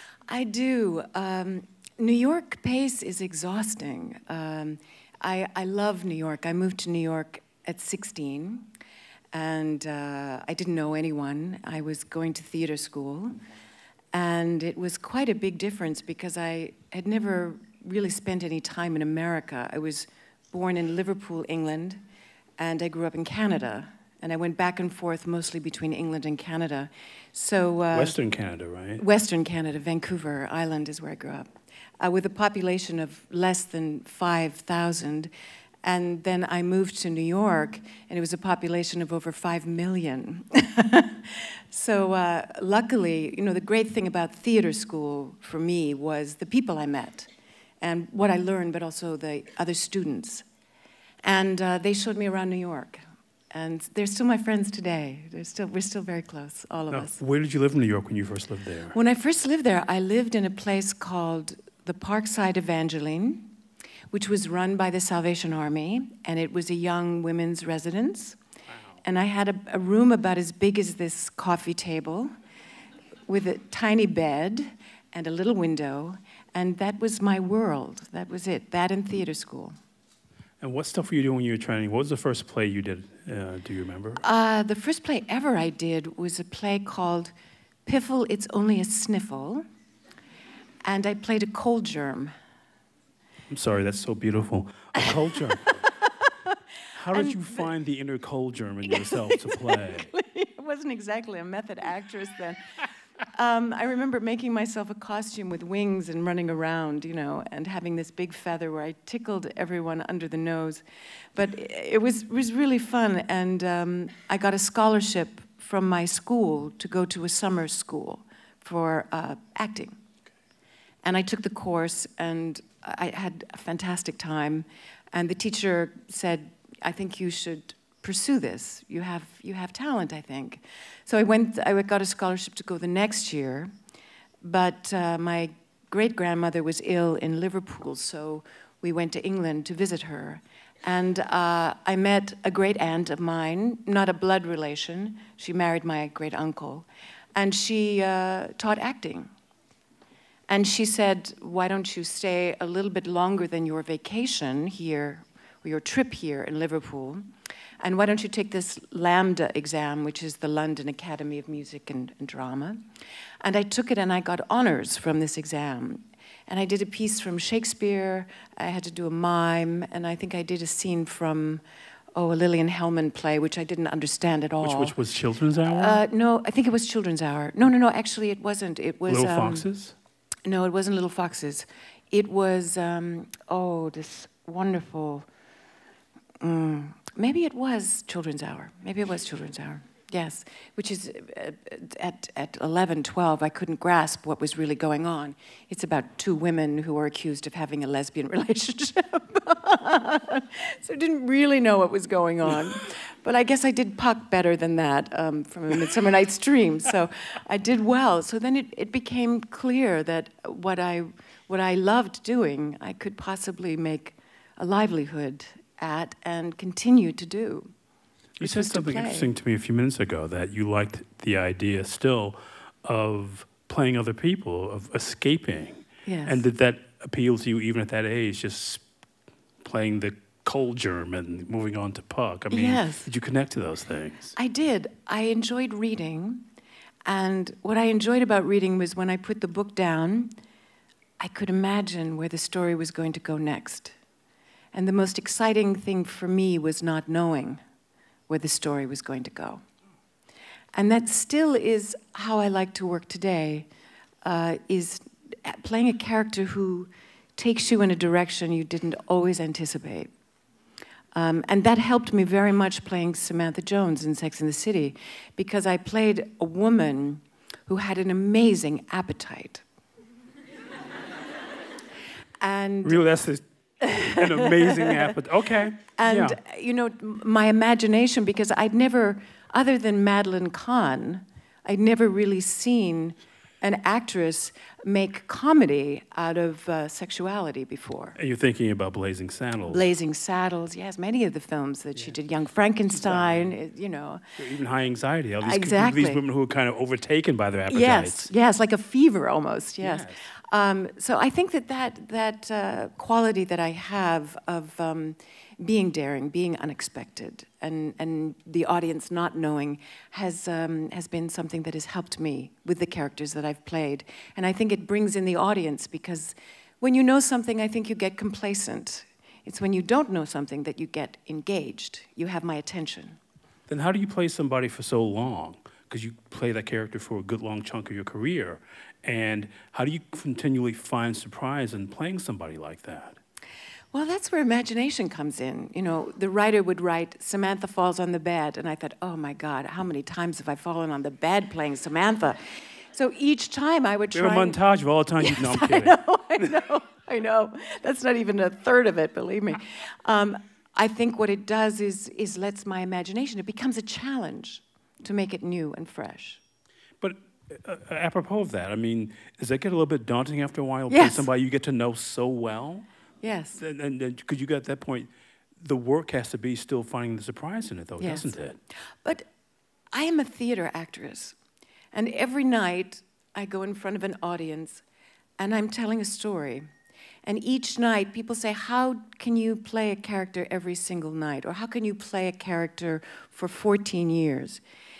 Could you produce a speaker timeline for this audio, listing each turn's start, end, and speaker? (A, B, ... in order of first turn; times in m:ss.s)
0:00.3-0:08.7 A
0:09.3-0:13.3 A
0:14.1-0:22.0 A
0:22.6-0:28.2 A
0:27.9-0:29.0 B
0:29.0-0:35.3 A
0:35.8-0:47.3 A
0:47.8-0:50.4 A
0:51.2-0:57.2 A
0:56.9-0:59.0 B
0:58.9-1:03.5 A
1:04.1-1:08.4 A
1:09.0-1:12.3 A
1:13.3-1:19.8 A
1:20.6-1:24.2 B
1:24.2-1:27.3 A
1:27.8-1:29.6 A
1:30.8-1:32.3 A
1:33.5-1:35.8 B
1:36.2-1:36.5 A
1:36.9-1:40.1 B
1:37.1-1:37.7 A
1:38.8-1:42.6 A
1:43.3-1:50.8 A
1:51.3-2:00.0 A
2:01.0-2:13.7 A
2:14.4-2:29.3 A
2:30.5-2:37.2 A
2:37.8-2:42.8 A
2:43.4-2:51.6 A
2:52.1-2:55.0 A
2:54.6-2:56.0 B
2:55.6-2:59.7 A
2:59.1-2:59.9 B
3:00.4-3:05.3 A
3:06.4-3:37.7 A
3:38.4-3:48.8 B
3:38.4-3:39.3 A
3:46.0-3:46.4 A
3:49.6-3:54.3 B
3:52.5-3:53.1 A
3:54.4-3:56.4 A
3:57.0-4:00.3 A
4:01.2-4:04.0 A
4:04.7-4:07.6 A
4:08.3-4:09.6 A
4:10.7-4:13.7 A
4:14.2-4:20.1 A
4:21.1-4:29.6 A
4:32.4-4:33.0 A
4:32.8-4:36.4 B
4:33.8-4:35.1 A
4:36.0-4:48.2 A
4:48.2-4:49.8 B
4:49.7-4:54.3 A
4:52.9-4:53.6 B
4:54.4-4:58.3 B
4:55.4-4:56.2 A
4:57.7-5:23.2 A
4:59.8-5:00.2 B
5:23.7-5:33.2 B
5:33.9-5:42.4 A
5:42.9-5:44.6 A
5:44.1-5:46.0 B
5:45.2-5:56.4 A
5:57.0-6:02.8 B
6:00.9-6:01.3 A
6:03.2-6:03.6 A
6:03.6-6:08.6 B
6:08.0-6:08.4 A
6:09.9-6:11.4 A
6:11.9-6:14.8 A
6:15.4-6:16.7 A
6:17.2-6:24.6 A